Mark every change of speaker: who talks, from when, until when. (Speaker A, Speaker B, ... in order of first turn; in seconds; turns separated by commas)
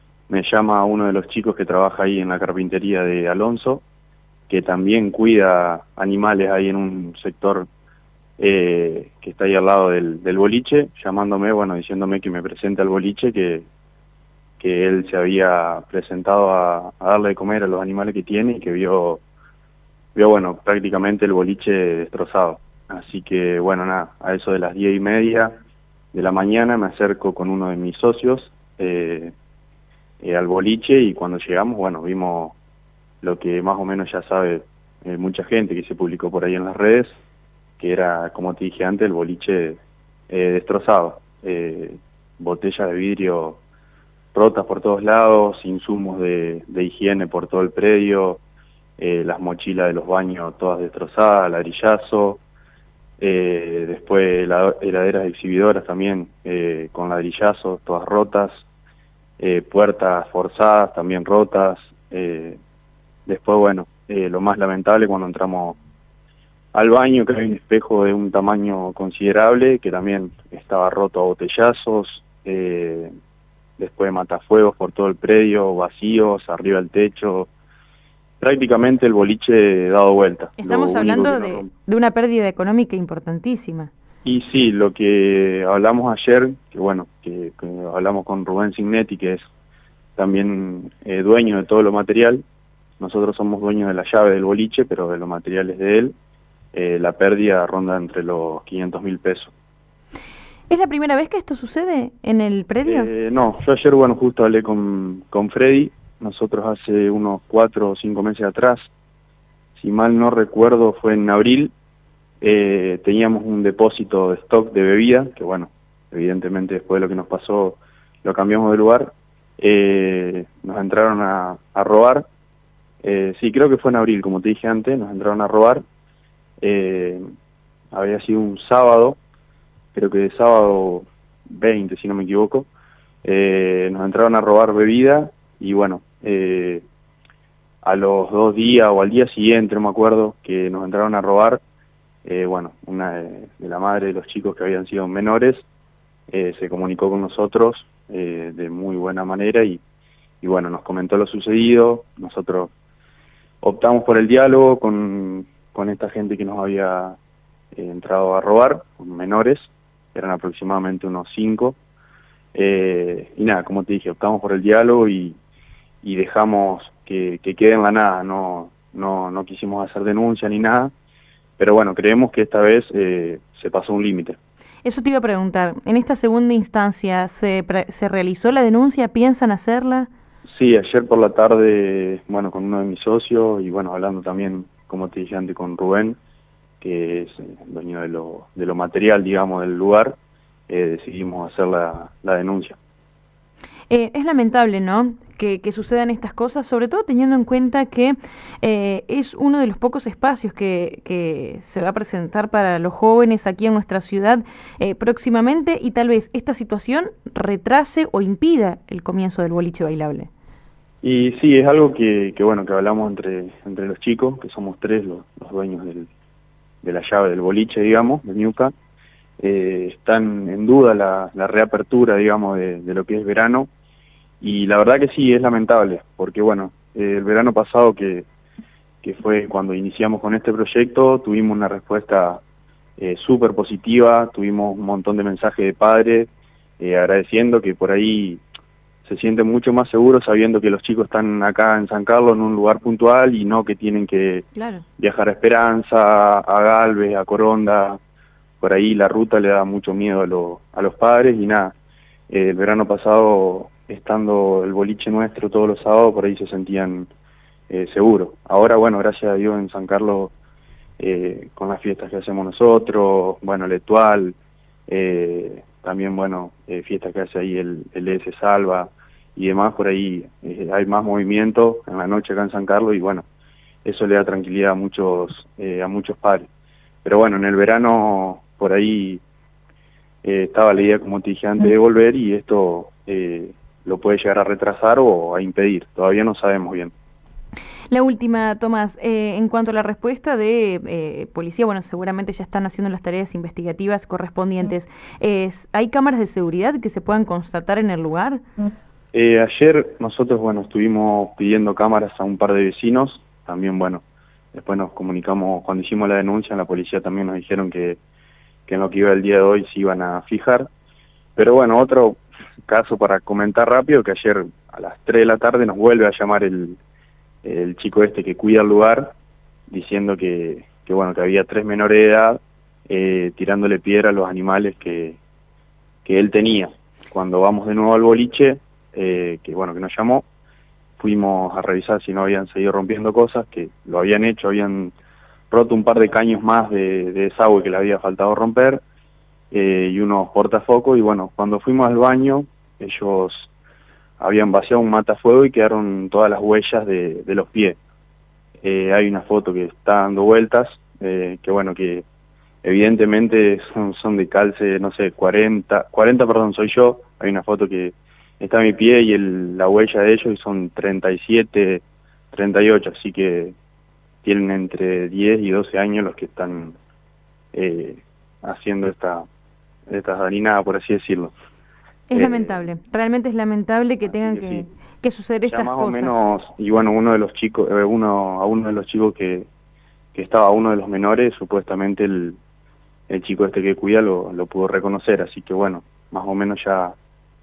Speaker A: 0.3-3.8, Speaker A: 4.5-7.7, Speaker A: 8.4-13.7, Speaker A: 14.6-19.2, Speaker A: 20.1-25.5, Speaker A: 26.1-29.3, Speaker A: 30.2-32.5, Speaker A: 33.2-37.1, Speaker A: 37.8-43.6, Speaker A: 44.3-48.4, Speaker A: 49.0-52.4, Speaker A: 53.2-58.6, Speaker A: 59.4-62.6, Speaker A: 63.3-65.8, Speaker A: 66.7-73.1, Speaker A: 73.8-77.5, Speaker A: 78.4-81.7, Speaker B: 80.6-83.9, Speaker A: 84.2-89.4, Speaker A: 90.2-92.4, Speaker A: 93.0-96.1, Speaker A: 96.7-99.5, Speaker B: 100.7-103.1, Speaker A: 102.8-108.9, Speaker A: 109.8-111.7, Speaker A: 112.4-122.2, Speaker A: 123.0-125.8, Speaker A: 126.6-127.2, Speaker A: 127.9-129.2, Speaker A: 129.9-132.7, Speaker A: 133.2-136.8, Speaker A: 137.8-141.6, Speaker A: 142.2-145.7, Speaker A: 146.3-149.8, Speaker A: 150.4-152.7, Speaker A: 153.6-157.2, Speaker A: 157.7-161.8, Speaker A: 162.5-165.4, Speaker A: 166.0-170.9, Speaker A: 171.6-174.4, Speaker B: 174.8-180.1, Speaker A: 180.5-186.2, Speaker A: 186.8-190.2, Speaker A: 190.7-192.8, Speaker B: 193.9-210.3, Speaker A: 211.0-216.1, Speaker A: 216.8-218.7, Speaker A: 219.4-223.7, Speaker A: 224.4-228.2, Speaker A: 229.0-232.4, Speaker A: 233.0-238.4, Speaker A: 239.0-248.0, Speaker B: 244.6-244.8, Speaker A: 248.6-251.7, Speaker A: 252.3-257.1, Speaker A: 257.7-260.3, Speaker A: 261.0-264.4, Speaker A: 264.9-273.2, Speaker A: 273.8-276.5, Speaker A: 277.0-279.2, Speaker A: 280.2-286.9, Speaker B: 287.9-298.4, Speaker A: 299.1-308.0, Speaker A: 308.7-310.7, Speaker A: 311.4-316.8, Speaker A: 317.4-319.1, Speaker A: 319.7-325.2, Speaker A: 326.0-330.2, Speaker A: 331.0-334.9, Speaker A: 335.5-338.8, Speaker A: 339.5-343.5, Speaker A: 344.2-347.8, Speaker A: 348.6-352.1, Speaker A: 352.6-363.5, Speaker A: 364.2-366.8, Speaker A: 367.5-369.2, Speaker A: 369.9-371.3, Speaker B: 372.1-376.2, Speaker A: 372.1-372.7, Speaker A: 374.1-374.6, Speaker A: 375.5-379.5, Speaker A: 380.1-382.4, Speaker A: 383.1-387.0